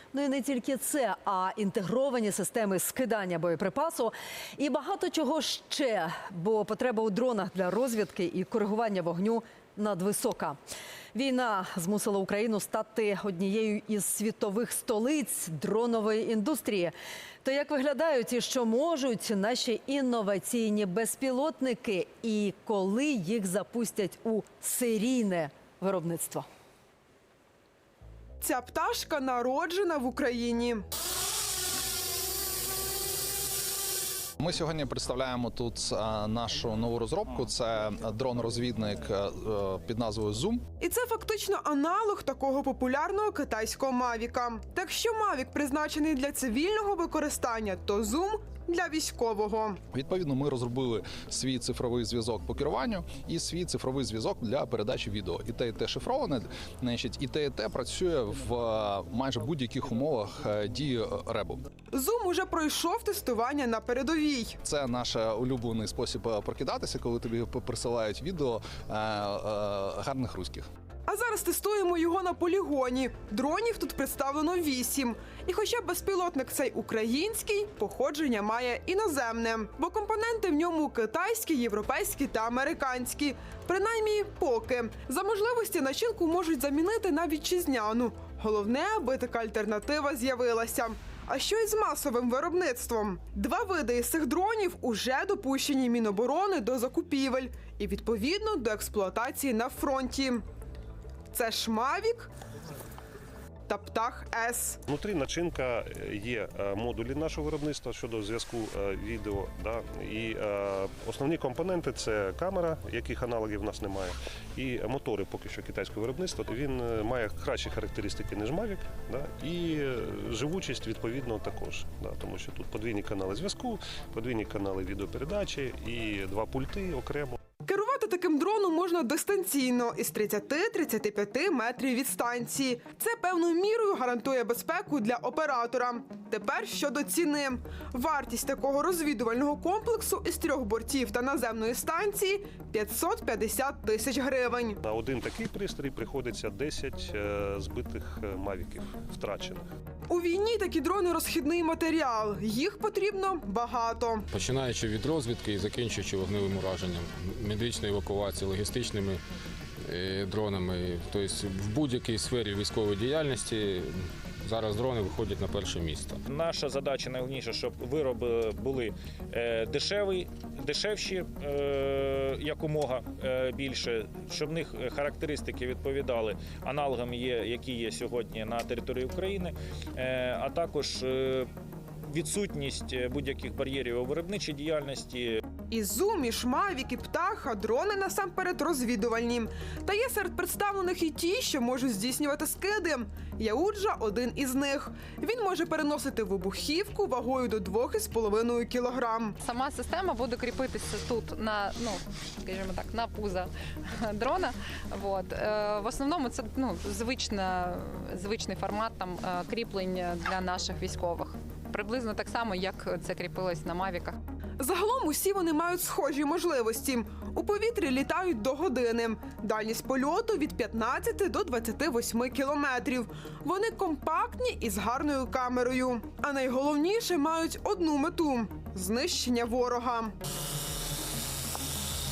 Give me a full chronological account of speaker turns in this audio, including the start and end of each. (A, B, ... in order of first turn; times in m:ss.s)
0:00.1-0:10.6 A
0:11.1-0:26.5 A
0:28.4-0:30.8 B
0:34.4-0:40.6 C
0:40.8-0:49.8 B
0:49.9-1:01.6 C
1:01.9-1:04.6 B
1:04.6-1:10.7 C
1:11.1-1:40.4 B
1:41.3-1:42.3 B
1:43.7-1:44.8 B
1:44.9-2:07.4 D
2:07.6-2:24.8 B
2:24.8-2:29.7 D
2:30.1-2:34.3 B
2:34.3-2:39.2 E
2:39.9-2:43.9 E
2:44.4-2:46.2 E
2:46.3-3:01.5 F
3:02.1-3:05.4 F
3:05.7-3:19.4 B
3:19.5-3:23.5 G
3:24.2-3:34.1 G
3:34.6-3:50.2 B